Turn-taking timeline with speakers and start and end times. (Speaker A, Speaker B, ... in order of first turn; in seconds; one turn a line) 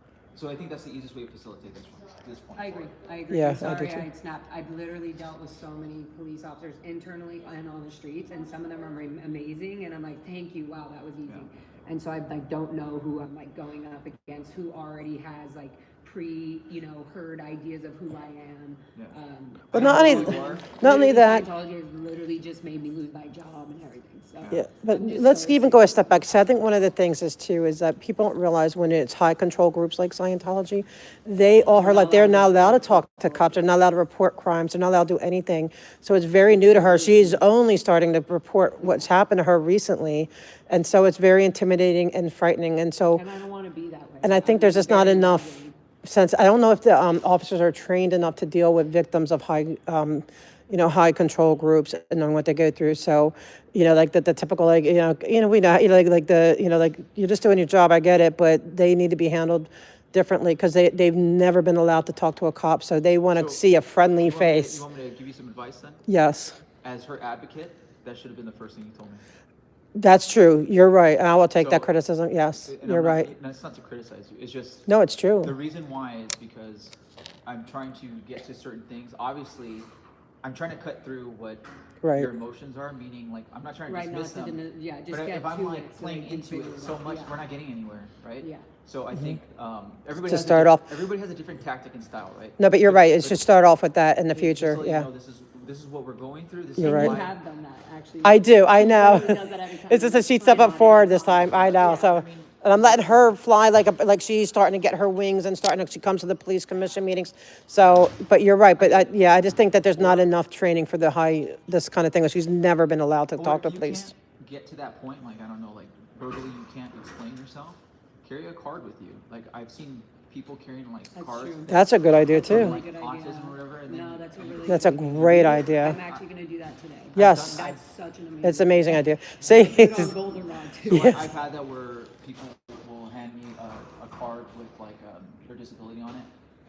Speaker A: 0.3-2.9
Speaker B: 2.5-26.3
Speaker C: 3.3-4.1
Speaker C: 19.7-21.5
Speaker A: 19.7-20.6
Speaker A: 24.4-24.7
Speaker C: 24.5-43.2
Speaker B: 31.7-33.7
Speaker B: 36.5-37.4
Speaker B: 43.1-45.7
Speaker C: 44.2-64.8
Speaker A: 63.3-63.6
Speaker A: 64.2-66.0
Speaker C: 66.1-66.6
Speaker A: 66.8-69.2
Speaker C: 70.0-73.3
Speaker A: 71.5-71.9
Speaker A: 72.6-74.9
Speaker C: 74.9-75.5
Speaker A: 75.4-76.9
Speaker A: 77.5-79.9
Speaker A: 80.4-93.4
Speaker C: 82.0-82.3
Speaker B: 83.9-87.4
Speaker B: 88.4-88.7
Speaker C: 90.1-90.8
Speaker C: 92.6-95.1
Speaker A: 94.3-97.3
Speaker C: 96.8-97.2
Speaker B: 96.8-102.0
Speaker C: 98.2-114.1
Speaker A: 101.3-103.3
Speaker A: 108.8-109.2
Speaker A: 110.0-110.2
Speaker A: 113.3-126.2
Speaker B: 121.1-131.2
Speaker C: 121.7-122.8
Speaker C: 124.7-126.0
Speaker A: 127.1-127.8
Speaker C: 127.2-127.7
Speaker C: 128.4-130.1
Speaker A: 130.8-136.3
Speaker C: 130.9-131.2